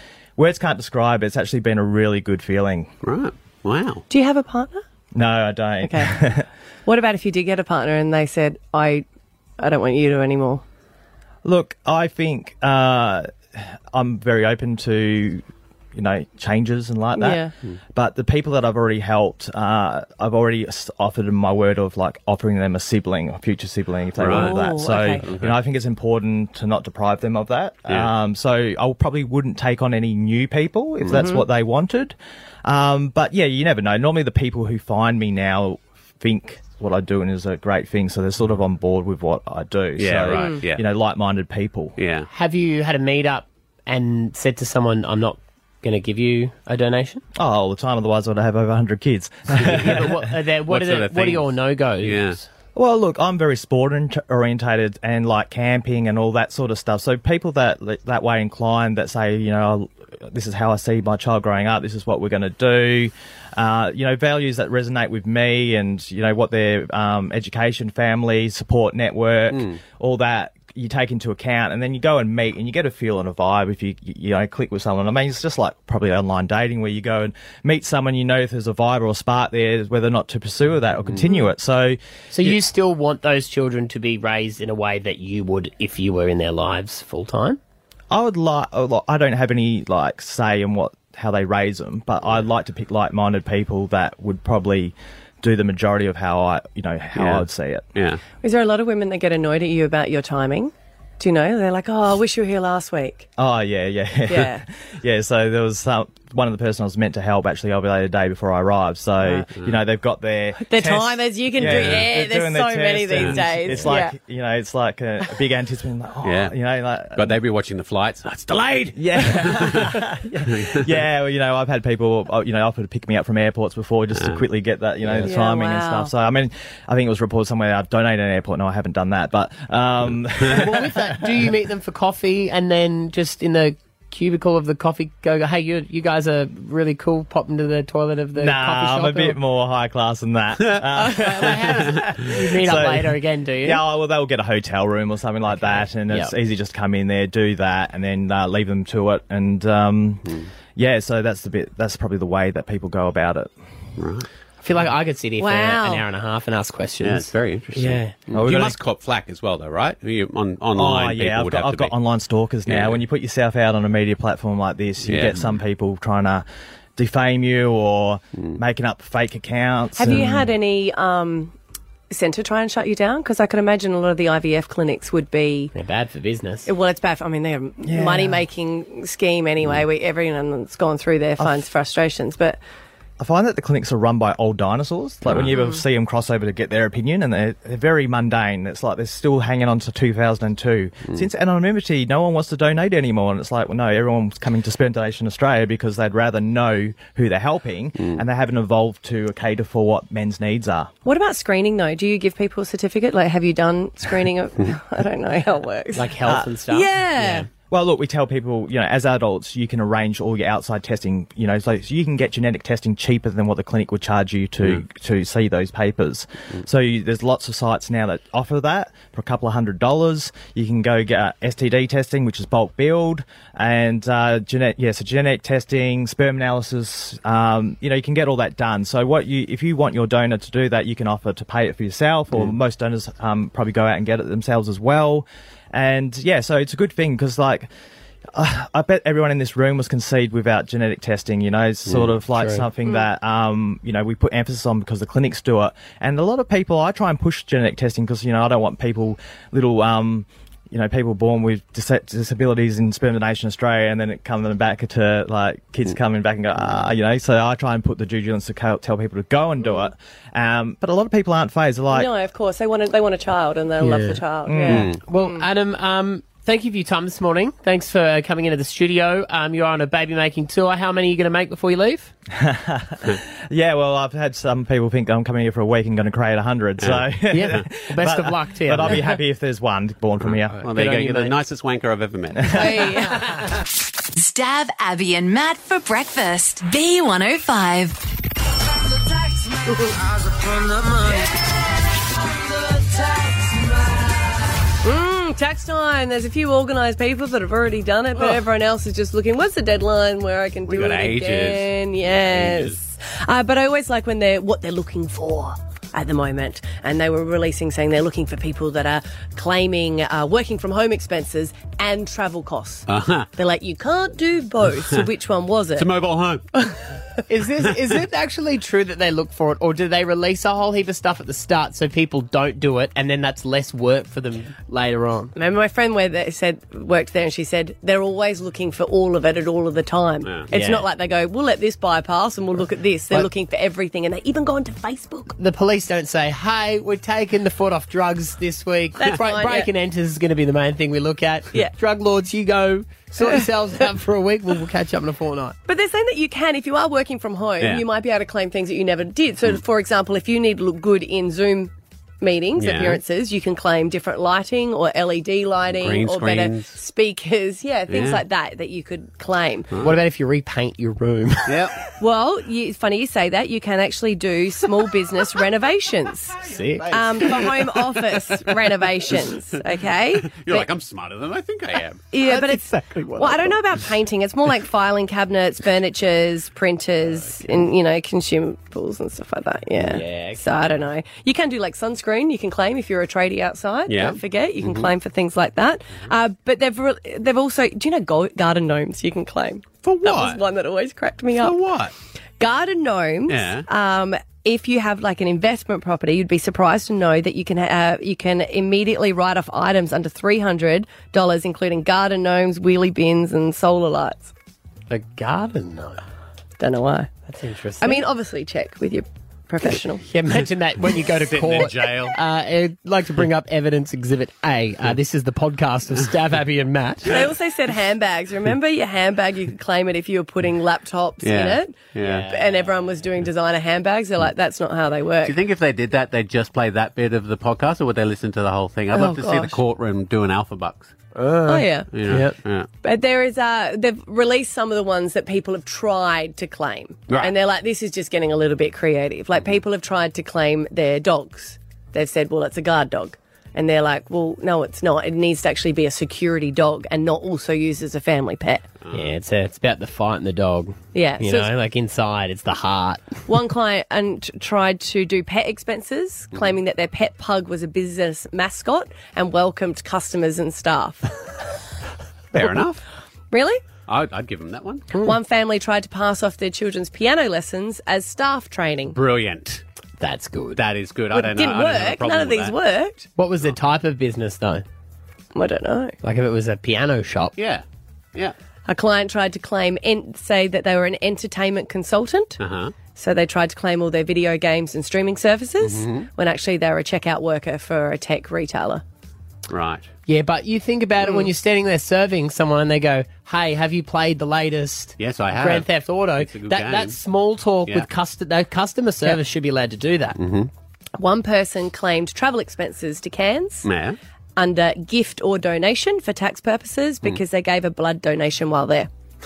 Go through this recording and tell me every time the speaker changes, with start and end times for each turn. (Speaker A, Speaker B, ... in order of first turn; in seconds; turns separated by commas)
Speaker A: 0.4-2.9, Speaker B: 3.0-4.0, Speaker C: 4.1-4.8, Speaker A: 5.1-6.5, Speaker C: 5.8-6.2, Speaker C: 6.8-9.0, Speaker C: 9.6-10.6, Speaker A: 11.4-17.4, Speaker C: 17.1-17.5, Speaker A: 17.9-42.0, Speaker B: 24.2-24.5, Speaker C: 24.3-25.2, Speaker B: 25.2-25.6, Speaker C: 31.1-31.4, Speaker B: 40.0-40.8, Speaker C: 40.3-40.6, Speaker B: 42.0-42.3, Speaker D: 42.3-47.2, Speaker A: 47.4-50.2, Speaker B: 49.6-49.9, Speaker D: 49.7-52.4, Speaker B: 50.7-51.5, Speaker B: 52.0-52.4, Speaker A: 52.7-82.5, Speaker B: 69.5-69.8, Speaker D: 82.3-87.6, Speaker A: 88.1-97.8, Speaker B: 97.1-97.4, Speaker B: 98.0-98.2, Speaker C: 98.4-103.3, Speaker A: 103.4-117.4, Speaker C: 104.3-104.6, Speaker C: 109.2-109.5, Speaker C: 110.6-114.1, Speaker B: 111.6-112.0, Speaker B: 116.2-116.5, Speaker B: 117.1-120.9, Speaker A: 118.9-131.5, Speaker B: 124.2-124.4, Speaker C: 125.2-126.1, Speaker D: 130.5-139.4, Speaker A: 138.3-153.5, Speaker C: 141.0-142.0, Speaker D: 141.3-143.8, Speaker D: 145.6-146.3, Speaker B: 154.0-154.3, Speaker D: 154.6-158.1, Speaker C: 155.4-156.1, Speaker B: 157.0-161.9, Speaker A: 158.3-158.8, Speaker A: 160.8-166.4, Speaker B: 162.7-163.0, Speaker B: 165.1-165.6, Speaker A: 166.9-170.5, Speaker C: 170.0-171.5, Speaker C: 172.1-175.7, Speaker D: 175.7-176.7, Speaker C: 176.7-182.6, Speaker A: 177.8-178.4, Speaker A: 181.4-181.6, Speaker A: 183.2-200.9, Speaker C: 185.5-185.8, Speaker C: 201.0-207.5, Speaker D: 205.9-207.5, Speaker A: 207.7-237.7, Speaker A: 238.3-262.1, Speaker D: 242.4-242.6, Speaker C: 261.9-265.4, Speaker D: 263.8-264.2, Speaker A: 264.4-264.9, Speaker B: 264.7-264.9, Speaker D: 265.1-272.1, Speaker A: 272.3-280.6, Speaker B: 276.8-277.1, Speaker D: 277.3-279.1, Speaker B: 280.2-283.0, Speaker D: 280.7-281.3, Speaker A: 282.4-282.8, Speaker C: 282.5-283.4, Speaker E: 284.1-288.0, Speaker C: 289.7-290.0, Speaker C: 294.8-315.9, Speaker B: 300.7-302.8, Speaker B: 312.9-313.3, Speaker B: 315.8-316.4, Speaker D: 317.3-325.3, Speaker C: 325.3-335.4, Speaker D: 330.5-330.8, Speaker D: 335.4-345.6, Speaker C: 339.0-339.7, Speaker C: 343.2-343.5, Speaker C: 345.7-359.7, Speaker B: 352.6-353.0, Speaker B: 355.7-356.8, Speaker B: 357.9-358.2, Speaker D: 359.8-361.6, Speaker B: 361.4-361.8, Speaker C: 362.0-370.6, Speaker D: 366.4-367.4, Speaker B: 370.1-372.1, Speaker C: 372.1-372.6, Speaker D: 372.2-373.6, Speaker C: 373.2-391.5, Speaker D: 379.8-380.4, Speaker B: 383.9-384.9, Speaker B: 389.8-390.4, Speaker B: 391.4-391.9, Speaker C: 392.4-404.3, Speaker B: 393.3-393.6, Speaker D: 404.9-406.0, Speaker C: 406.6-407.1, Speaker D: 407.3-408.0, Speaker C: 407.8-410.0, Speaker D: 410.1-417.2, Speaker B: 411.3-412.1, Speaker C: 417.1-425.4, Speaker B: 421.2-422.3, Speaker D: 422.0-422.8, Speaker B: 425.2-430.9, Speaker C: 428.9-429.6, Speaker D: 431.1-432.4, Speaker C: 431.5-431.9, Speaker B: 431.9-432.7, Speaker C: 432.8-448.6, Speaker B: 437.1-437.3, Speaker B: 448.8-449.1, Speaker D: 448.9-453.1, Speaker C: 450.9-451.5, Speaker C: 453.3-461.3, Speaker B: 462.3-462.8, Speaker C: 463.3-463.6, Speaker B: 463.9-464.9, Speaker C: 465.0-469.0, Speaker B: 468.9-469.6, Speaker D: 470.0-470.6, Speaker B: 470.6-472.5, Speaker C: 471.1-473.1, Speaker D: 473.2-474.6, Speaker C: 475.3-475.9, Speaker D: 476.0-477.3, Speaker B: 477.4-477.6, Speaker C: 478.7-482.4, Speaker B: 482.4-482.7, Speaker C: 482.9-488.8, Speaker B: 485.6-486.1, Speaker B: 489.5-489.9, Speaker D: 490.1-500.2, Speaker C: 491.0-491.3, Speaker B: 495.0-495.7, Speaker B: 496.2-497.0, Speaker B: 500.2-500.5, Speaker C: 501.0-503.7, Speaker B: 503.6-504.0, Speaker C: 504.4-508.9